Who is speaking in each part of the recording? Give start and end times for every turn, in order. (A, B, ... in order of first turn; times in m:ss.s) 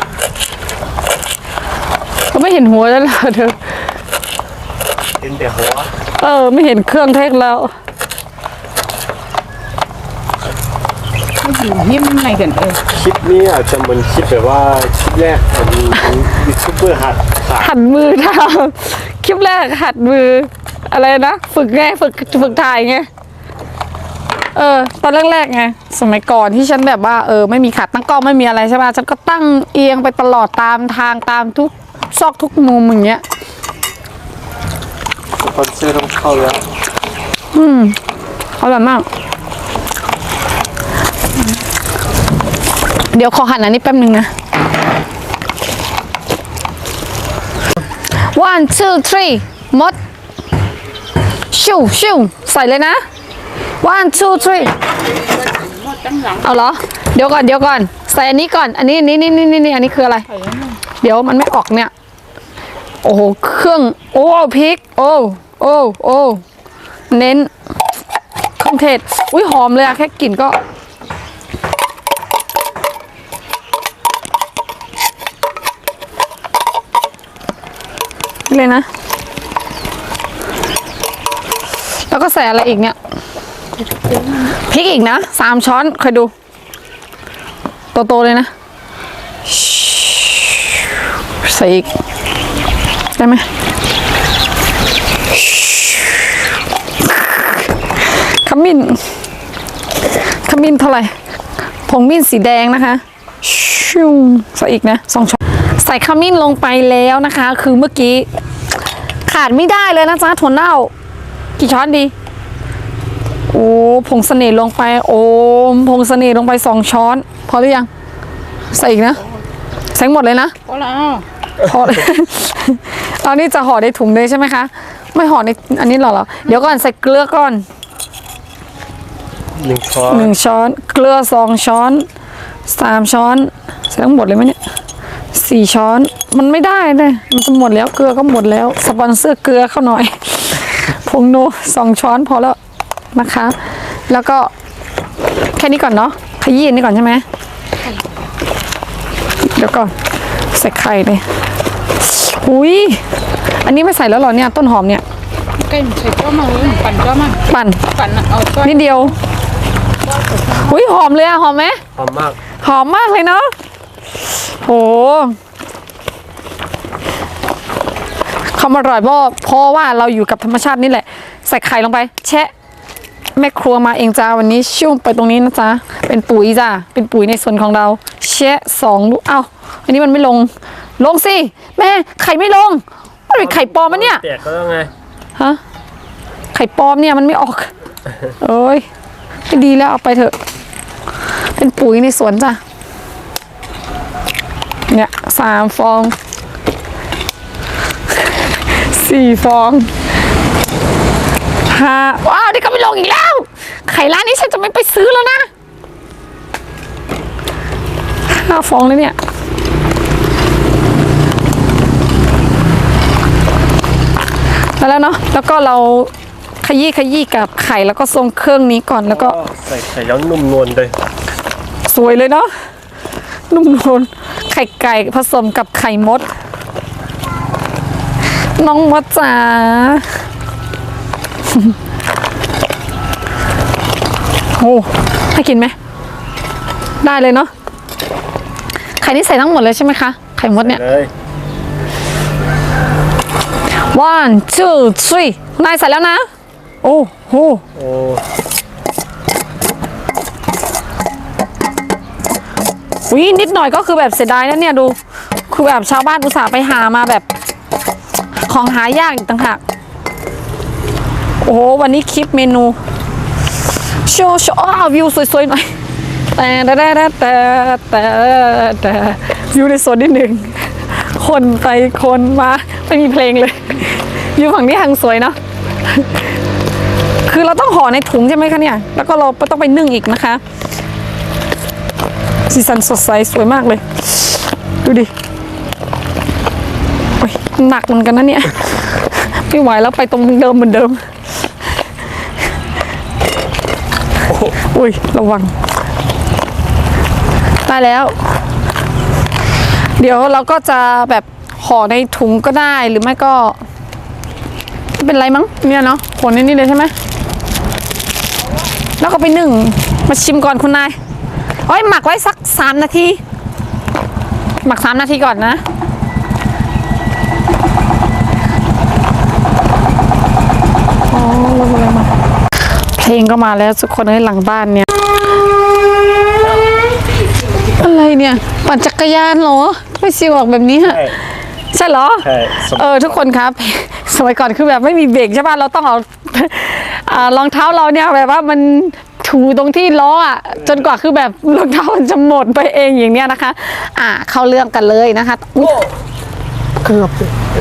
0:02.3-0:03.6 A
0:05.2-0:05.9 B
0:06.2-0:07.7 A
0:11.4-0:12.8 C
0:12.9-0:17.7 B
0:17.6-0:23.1 A
0:24.6-0:33.2 A
0:35.4-0:36.6 B
0:37.5-0:38.0 A
0:38.6-0:39.1 A
0:43.1-0:44.3 A
0:48.1-0:50.0 A
0:51.5-0:53.0 A
0:53.8-0:54.7 A
0:55.1-0:56.5 C
0:56.4-1:00.3 A
1:00.3-1:00.8 C
1:01.0-1:01.9 A
1:03.0-1:06.4 A
1:07.1-1:07.5 A
1:08.6-1:10.6 A
1:18.5-1:18.9 A
1:22.1-1:23.0 A
1:23.8-1:24.5 C
1:24.7-1:26.3 A
1:27.9-1:28.5 A
1:29.5-1:30.8 A
1:31.4-1:31.9 A
1:33.2-1:33.5 A
1:35.3-1:36.3 A
1:38.2-1:39.1 A
1:40.3-1:41.2 A
1:41.9-1:48.3 A
1:49.3-1:50.9 A
1:51.6-1:52.1 A
1:53.5-1:57.9 A
1:58.7-1:59.2 A
1:59.9-2:00.6 A
2:00.7-2:01.2 C
2:01.6-2:07.6 A
2:09.6-2:10.3 B
2:10.1-2:12.1 A
2:12.7-2:14.6 A
2:15.3-2:22.6 A
2:23.1-2:23.6 A
2:24.1-2:24.5 A
2:25.6-2:27.2 A
2:29.6-2:29.9 A
2:30.5-2:31.2 A
2:32.0-2:33.0 A
2:33.6-2:35.0 A
2:35.6-2:39.2 C
2:37.5-2:37.8 A
2:38.6-2:39.1 A
2:40.0-2:40.8 C
2:40.7-2:41.8 A
2:42.0-2:42.4 B
2:42.6-2:43.5 A
2:44.4-2:45.4 A
2:48.5-2:52.5 A
2:53.4-3:04.2 A
3:03.4-3:04.9 B
3:06.5-3:07.7 A
3:08.4-3:08.8 A
3:09.5-3:10.4 A
3:11.6-3:12.6 A
3:14.9-3:16.2 A
3:18.2-3:19.9 A
3:21.7-3:25.5 A
3:28.3-3:29.2 A
3:34.8-3:36.1 A
3:36.6-3:39.4 A
3:39.1-3:40.9 B
3:41.9-3:42.5 A
3:43.5-3:46.3 A
3:48.6-3:50.1 A
3:54.6-3:55.8 A
3:57.0-3:57.5 A
3:59.0-4:00.8 A
4:00.6-4:01.1 B
4:03.9-4:06.2 A
4:06.8-4:07.6 A
4:07.8-4:08.2 B
4:13.1-4:15.0 A
4:15.5-4:17.3 A
4:18.5-4:19.6 A
4:21.4-4:22.8 A
4:24.1-4:25.7 A
4:26.4-4:35.4 A
4:37.3-4:40.4 A
4:42.5-4:45.1 A
4:47.2-4:51.0 A
4:54.5-4:55.5 A
4:57.6-4:58.2 A
5:00.0-5:03.6 A
5:05.0-5:06.9 A
5:09.0-5:11.0 A
5:11.7-5:13.2 A
5:14.6-5:15.6 A
5:21.1-5:22.1 A
5:23.0-5:24.9 A
5:27.7-5:31.0 A
5:30.8-5:31.1 B
5:31.7-5:45.9 A
5:32.2-5:33.2 B
5:46.8-5:47.2 A